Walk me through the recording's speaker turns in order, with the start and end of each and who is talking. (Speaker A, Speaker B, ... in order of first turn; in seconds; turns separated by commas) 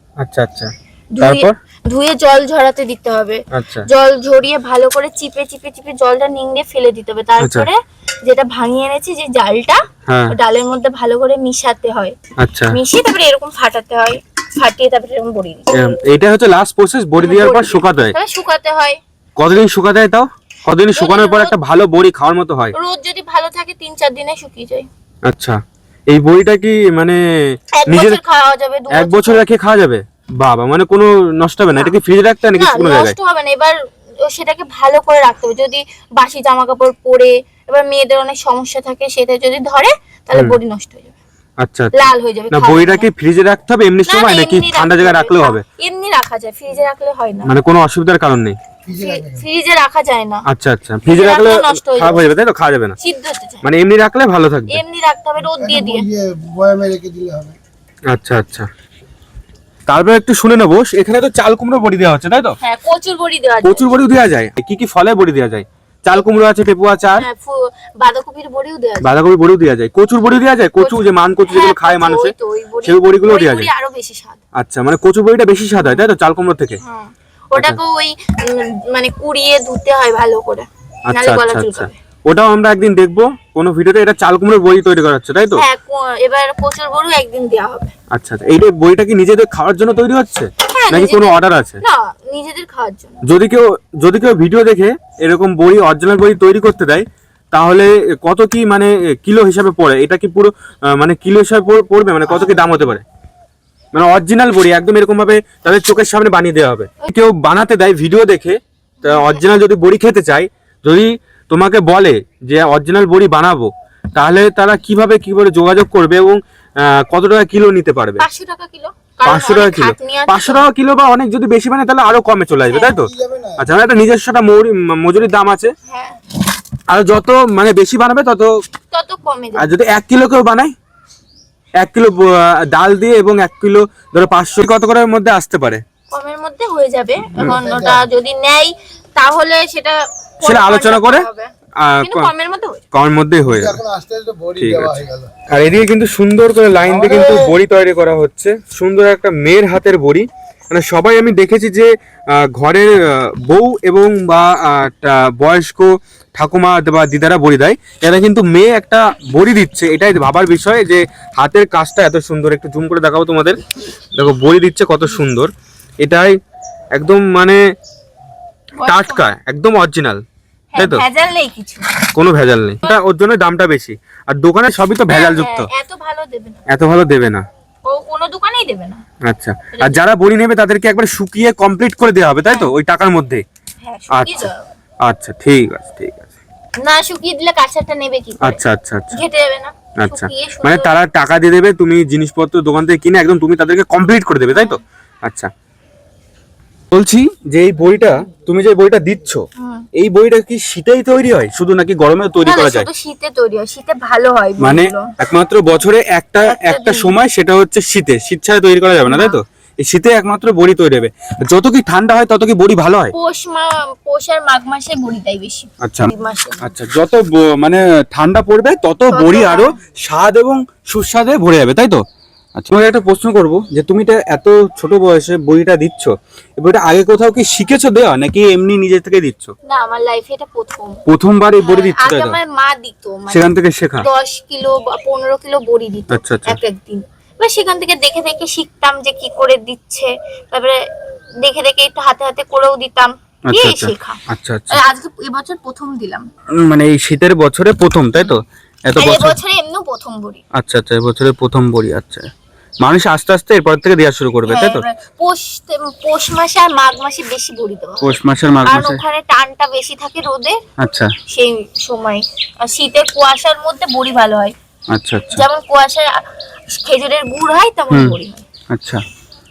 Speaker A: 0.2-1.5, Speaker B: 1.1-12.2, Speaker A: 3.5-3.9, Speaker A: 7.4-7.7, Speaker A: 10.1-10.3, Speaker A: 12.4-12.8, Speaker B: 12.7-15.8, Speaker A: 15.7-18.1, Speaker B: 17.2-19.0, Speaker A: 19.4-22.7, Speaker B: 20.9-21.5, Speaker B: 22.7-24.9, Speaker A: 25.2-28.2, Speaker B: 27.7-29.4, Speaker A: 28.9-33.1, Speaker B: 32.5-41.1, Speaker A: 41.6-42.0, Speaker B: 41.9-43.1, Speaker A: 42.5-45.6, Speaker B: 44.0-47.5, Speaker A: 47.4-48.6, Speaker C: 48.9-49.3, Speaker B: 48.9-50.4, Speaker A: 50.5-53.0, Speaker B: 51.0-52.2, Speaker B: 53.0-53.6, Speaker A: 53.6-54.8, Speaker B: 54.7-56.1, Speaker C: 55.7-57.5, Speaker A: 58.1-58.7, Speaker A: 59.9-62.6, Speaker B: 62.6-64.0, Speaker A: 63.6-67.2, Speaker B: 67.2-69.1, Speaker A: 69.0-73.7, Speaker B: 70.8-74.4, Speaker A: 74.5-76.8, Speaker B: 76.8-81.9, Speaker A: 81.1-85.6, Speaker B: 85.5-87.9, Speaker A: 88.1-91.8, Speaker B: 90.7-93.2, Speaker A: 93.2-103.0, Speaker B: 102.3-102.6, Speaker A: 103.9-118.2, Speaker B: 109.0-109.4, Speaker B: 118.2-120.6, Speaker A: 119.2-125.7, Speaker B: 122.7-122.9, Speaker B: 125.9-126.2, Speaker A: 126.9-128.5, Speaker B: 128.9-129.7, Speaker A: 129.6-130.7, Speaker A: 131.8-135.8, Speaker B: 136.1-142.8, Speaker C: 137.6-137.8, Speaker A: 140.4-141.2, Speaker A: 141.8-142.3, Speaker A: 142.9-143.8, Speaker C: 143.6-145.3, Speaker A: 144.6-163.6, Speaker A: 164.2-165.5, Speaker A: 166.0-166.3, Speaker A: 166.9-167.6, Speaker B: 168.8-169.2, Speaker A: 168.8-170.2, Speaker B: 170.7-172.1, Speaker A: 170.8-171.0, Speaker A: 172.1-175.7, Speaker B: 175.1-176.6, Speaker A: 176.7-177.4, Speaker B: 177.8-179.0, Speaker A: 179.2-183.4, Speaker B: 179.7-180.0, Speaker B: 183.8-184.7, Speaker A: 184.1-184.5, Speaker A: 185.0-186.3, Speaker B: 186.8-190.9, Speaker A: 188.4-189.2, Speaker A: 190.0-195.5, Speaker B: 194.5-194.8, Speaker A: 196.9-202.9, Speaker B: 199.6-199.8, Speaker B: 202.4-205.1, Speaker A: 204.6-213.1, Speaker B: 206.4-207.1, Speaker B: 209.0-209.4, Speaker B: 213.1-216.7, Speaker A: 215.8-222.0, Speaker B: 219.1-219.8, Speaker A: 222.6-229.5, Speaker B: 229.7-231.0, Speaker A: 231.1-232.4, Speaker B: 231.6-240.8, Speaker A: 233.3-234.1, Speaker A: 236.1-236.6, Speaker B: 241.4-246.3, Speaker A: 243.5-244.8, Speaker A: 246.6-249.4, Speaker B: 249.0-250.4, Speaker A: 250.5-252.3, Speaker A: 252.8-254.8, Speaker B: 254.4-260.6, Speaker A: 258.0-259.0, Speaker A: 260.8-261.1, Speaker B: 261.3-264.5, Speaker A: 264.9-265.4, Speaker B: 265.3-268.4, Speaker A: 267.9-268.1, Speaker A: 268.7-269.0